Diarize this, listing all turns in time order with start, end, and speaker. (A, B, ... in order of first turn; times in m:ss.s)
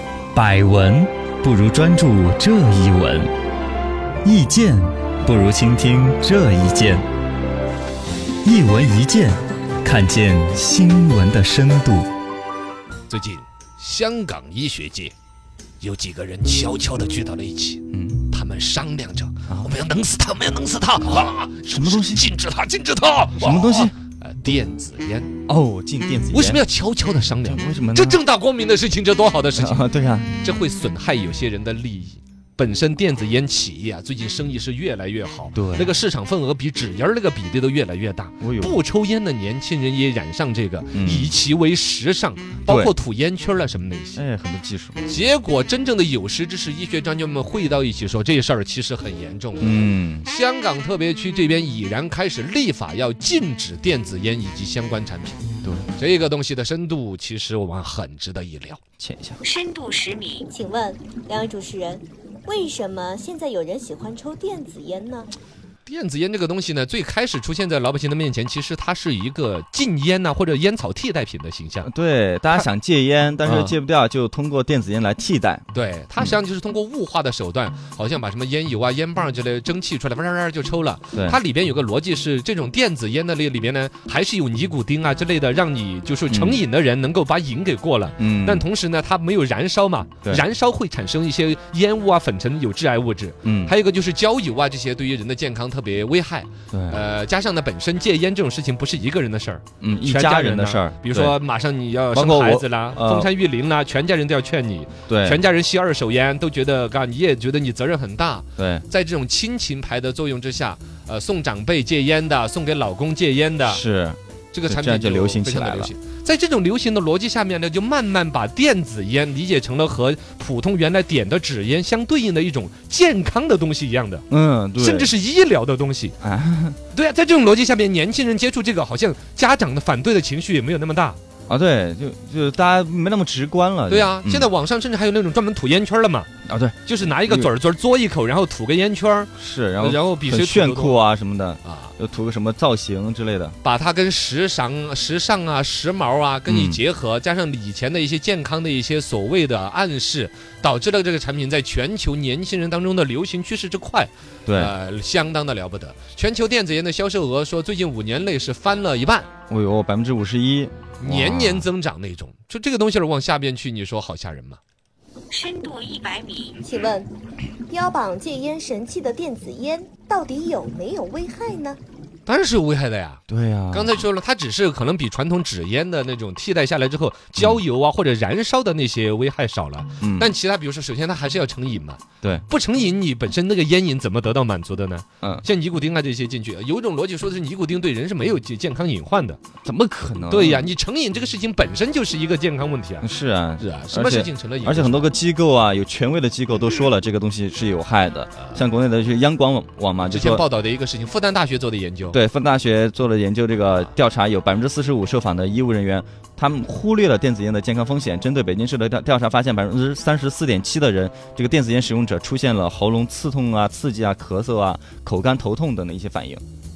0:00.3-0:03.3 A
0:04.2-0:07.0 A
0:08.4-0:12.1 A
0:13.1-0:15.1 B
0:15.8-0:25.3 B
0:17.9-0:18.3 A
0:21.7-0:22.3 A
0:23.4-0:24.0 A
0:25.5-0:26.6 A
0:26.3-0:29.8 B
0:27.4-0:28.2 A
0:29.6-0:30.4 A
0:30.4-0:44.2 B
0:35.5-0:35.9 A
0:38.4-0:38.8 A
0:40.9-0:41.3 A
0:42.7-0:42.9 A
0:44.2-0:45.0 A
0:45.1-0:58.8 B
0:49.6-0:50.3 A
0:59.0-0:59.4 A
0:59.4-1:00.5 C
1:00.5-1:05.3 D
1:05.9-1:11.9 B
1:11.8-1:15.6 A
1:13.4-1:13.7 B
1:15.7-1:53.8 B
1:21.1-1:21.4 A
1:26.3-1:26.6 A
1:28.2-1:28.6 A
1:33.4-1:33.7 A
1:36.7-1:37.0 A
1:39.8-1:41.4 A
1:42.1-1:43.3 A
1:45.1-1:45.4 A
1:48.6-1:48.8 A
1:53.7-1:55.9 A
1:54.5-2:04.2 B
2:04.3-2:05.1 A
2:04.8-2:06.2 B
2:06.2-2:06.8 A
2:06.9-2:11.2 B
2:11.5-2:14.5 A
2:13.9-2:16.3 B
2:16.5-2:17.5 A
2:16.9-2:21.0 B
2:19.4-2:23.6 A
2:21.6-2:21.9 B
2:23.6-2:39.3 B
2:26.5-2:26.8 A
2:34.5-2:34.7 A
2:39.5-2:41.7 A
2:41.0-2:44.6 B
2:45.3-2:46.6 C
2:46.6-2:47.1 D
2:47.7-2:51.8 D
2:52.3-3:09.4 B
2:53.3-2:54.0 A
3:00.0-3:00.3 A
3:09.6-3:10.7 A
3:10.3-3:13.1 B
3:13.0-3:20.4 A
3:13.6-3:15.1 B
3:20.1-3:22.2 B
3:22.1-3:36.4 A